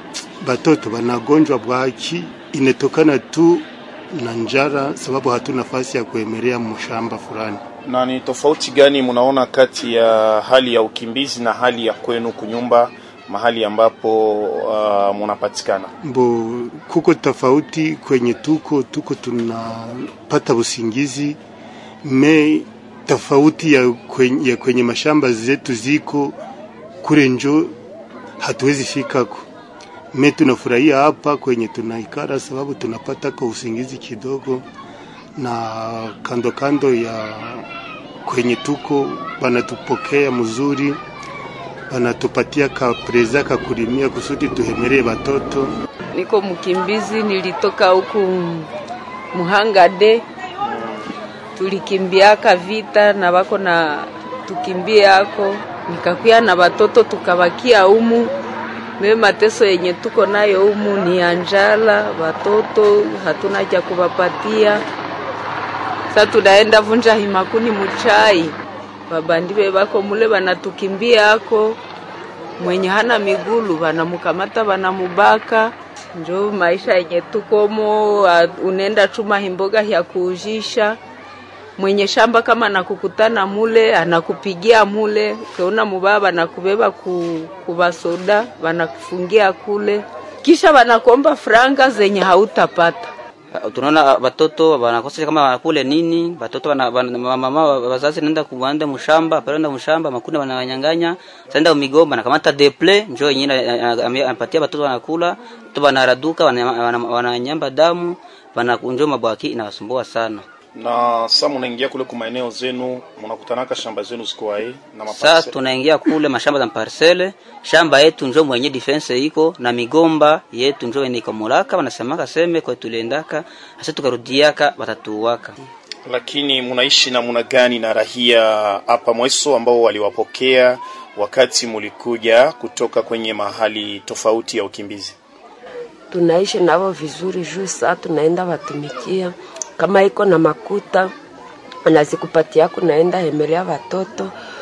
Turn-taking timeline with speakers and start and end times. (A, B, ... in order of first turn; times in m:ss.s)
0:00.4-0:07.6 A
0:07.8-0:15.9 B
0:16.0-0:21.4 A
0:22.0-0:26.4 A
0:27.0-0:27.7 A
0:28.4-0:29.5 A
0:30.1-0:34.6 A
0:35.4-0:37.6 A
0:38.2-0:41.0 A
0:41.9-0:45.7 A
0:46.1-0:48.7 C
0:49.3-0:50.2 C
0:50.6-0:51.0 B
0:51.6-0:58.3 C
0:59.0-1:04.8 C
1:06.1-1:08.5 C
1:09.1-1:11.8 C
1:12.6-1:21.0 C
1:21.8-1:33.1 C
1:33.5-1:50.4 D
1:50.7-1:55.5 B
1:55.1-2:05.6 D
2:06.0-2:15.1 B
2:16.1-2:21.1 E
2:21.8-2:24.3 E